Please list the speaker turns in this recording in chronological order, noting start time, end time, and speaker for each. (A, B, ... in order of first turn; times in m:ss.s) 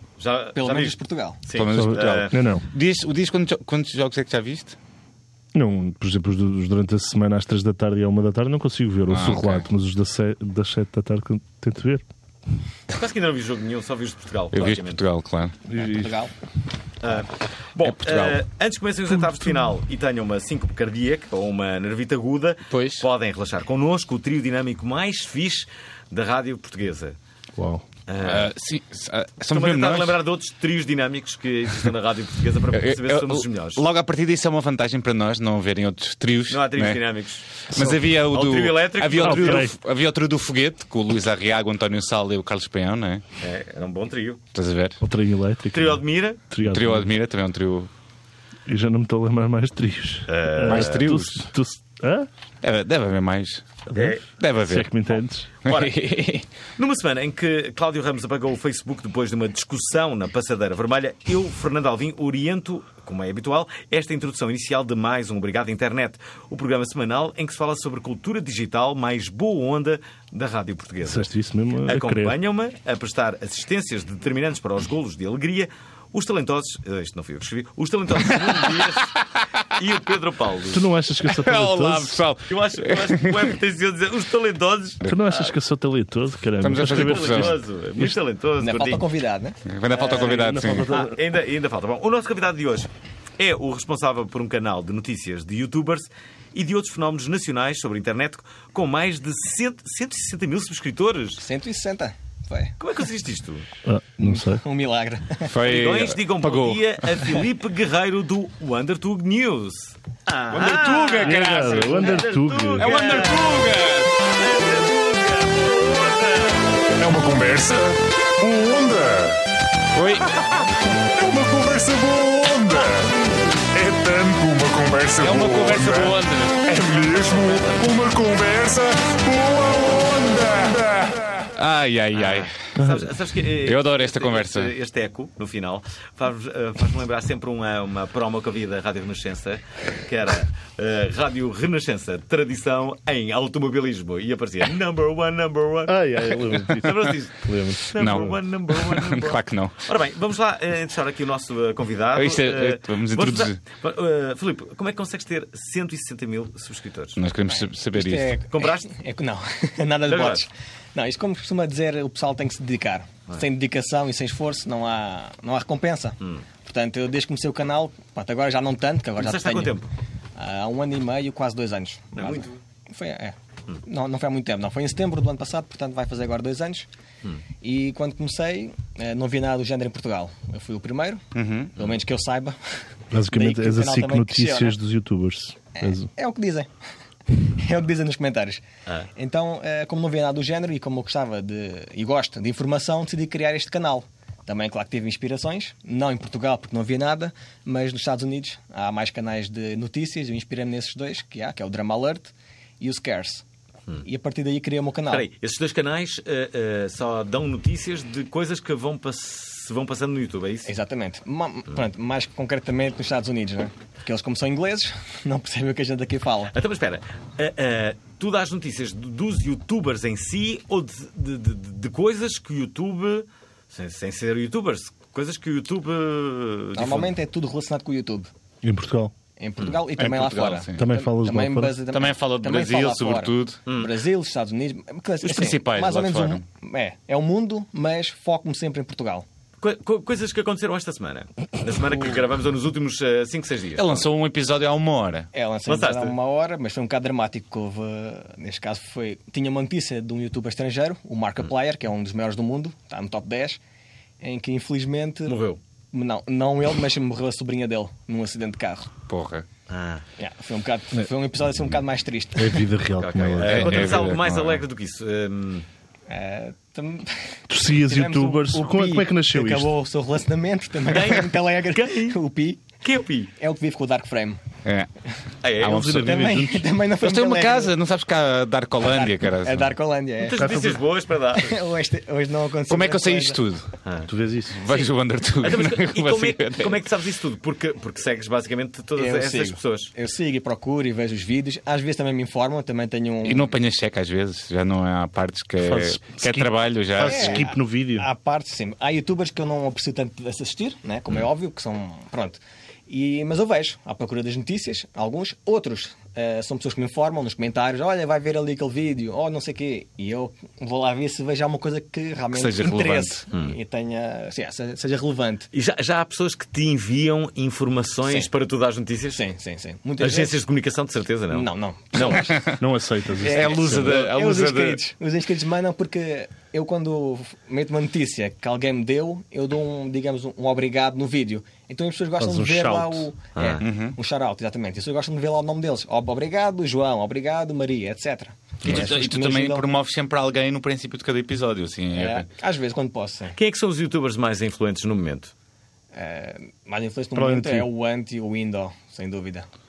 0:00.2-0:02.4 A
0:00.6-0:01.4 B
0:01.5-0:04.8 C
0:01.7-0:02.7 D
0:05.5-0:12.0 D
0:09.1-0:09.6 C
0:12.9-0:15.0 A
0:14.5-0:15.6 C
0:15.7-0:16.2 D
0:15.8-0:16.3 B
0:17.0-0:27.2 A
0:17.8-0:18.4 C
0:22.7-0:23.1 C
0:27.6-0:27.9 D
0:28.1-0:28.5 A
0:28.2-0:30.2 C
0:29.5-0:33.8 A
0:32.7-0:37.0 C
0:36.5-0:37.5 A
0:37.7-0:43.2 C
0:38.3-0:39.7 A
0:39.2-0:39.8 D
0:43.4-0:44.4 A
0:44.5-0:45.0 C
0:45.0-0:47.1 D
0:45.7-0:46.4 A
0:46.6-0:47.9 C
0:48.7-0:52.3 D
0:50.3-0:51.2 A
0:50.7-0:51.5 C
0:52.6-0:53.8 C
0:53.9-0:54.2 A
0:53.9-0:55.5 D
0:54.3-0:55.1 C
0:55.6-0:56.0 A
0:55.6-0:56.4 C
0:56.8-1:11.3 A
1:11.0-1:12.4 D
1:11.8-1:19.2 A
1:19.7-1:20.9 A
1:20.7-1:22.2 D
1:21.3-1:23.5 C
1:22.5-1:25.0 A
1:25.0-1:25.4 C
1:25.0-1:28.2 D
1:26.6-1:27.6 C
1:26.7-1:29.0 A
1:28.6-1:30.1 B
1:29.7-1:30.9 C
1:30.0-1:31.2 D
1:30.9-1:41.4 A
1:41.4-1:42.8 B
1:42.8-1:43.7 A
1:43.8-1:44.6 D
1:44.2-1:45.5 B
1:45.4-1:47.0 C
1:45.6-1:56.9 A
1:50.5-1:54.1 C
1:51.2-1:52.9 D
1:52.9-1:53.3 E
1:57.0-1:59.4 E
2:00.0-2:00.4 C
2:01.2-2:03.2 E
2:03.7-2:11.2 E
2:05.2-2:06.7 C
2:11.5-2:12.6 C
2:12.1-2:37.2 A
2:12.8-2:13.1 D
2:13.6-2:14.7 C
2:25.9-2:28.3 D
2:28.0-2:29.8 C
2:32.2-2:33.6 C
2:37.2-2:38.4 C
2:37.9-2:49.7 B
2:38.5-2:38.9 A
2:40.1-2:40.4 A
2:49.2-2:49.9 A
2:50.4-2:56.9 B
2:52.2-2:52.6 A
2:57.6-3:01.2 B
3:01.3-3:01.7 C
3:01.8-3:02.6 B
3:03.1-3:06.1 D
3:03.3-3:04.8 B
3:05.8-3:06.7 B
3:07.4-3:08.6 B
3:09.2-3:23.4 B
3:24.0-3:25.3 B
3:25.1-3:30.7 A
3:30.7-3:36.5 B
3:36.5-3:47.1 A
3:46.7-3:48.3 B
3:48.6-3:49.1 D
3:49.4-3:59.2 B
3:50.0-3:50.9 C
3:50.8-3:51.8 D
3:51.9-3:53.6 C
3:53.7-3:53.9 A
3:55.2-3:56.4 C
3:59.6-4:04.1 A
4:03.8-4:05.3 C
4:05.3-4:13.6 B
4:05.7-4:06.2 A
4:14.2-4:15.4 B
4:15.3-4:15.6 A
4:15.9-4:18.9 B
4:19.1-4:19.5 C
4:19.7-4:20.0 A
4:20.2-4:22.6 B
4:22.4-4:24.2 D
4:23.0-4:25.7 A
4:23.4-4:24.6 C
4:26.1-4:32.7 B
4:27.5-4:29.7 D
4:30.9-4:32.2 A
4:32.8-4:33.3 A
4:33.4-4:34.4 B
4:35.4-4:35.9 A
4:35.6-4:36.3 C
4:35.6-4:36.7 D
4:36.0-4:37.7 B
4:37.0-4:39.7 C
4:38.8-4:40.7 B
4:40.2-4:41.6 A
4:40.4-4:40.8 D
4:41.4-4:43.4 B
4:42.7-4:43.7 C
4:44.1-4:44.6 D
4:44.5-4:46.8 C
4:44.7-4:49.9 A
4:49.0-4:53.5 B
4:53.2-4:57.4 C
4:55.6-4:58.1 D
4:57.0-5:15.5 B
5:12.3-5:13.2 C
5:15.5-5:19.2 A
5:19.1-5:20.4 B
5:20.0-5:22.3 A
5:21.3-5:22.4 B
5:22.1-5:22.6 C
5:22.5-5:24.0 D
5:23.2-5:39.7 B
5:23.2-5:24.8 C
5:32.2-5:33.1 D
5:33.4-5:33.6 A
5:33.6-5:34.0 C
5:38.6-5:42.3 C
5:41.9-5:43.4 B
5:43.4-5:45.3 A
5:45.9-5:49.5 B
5:47.2-5:47.7 D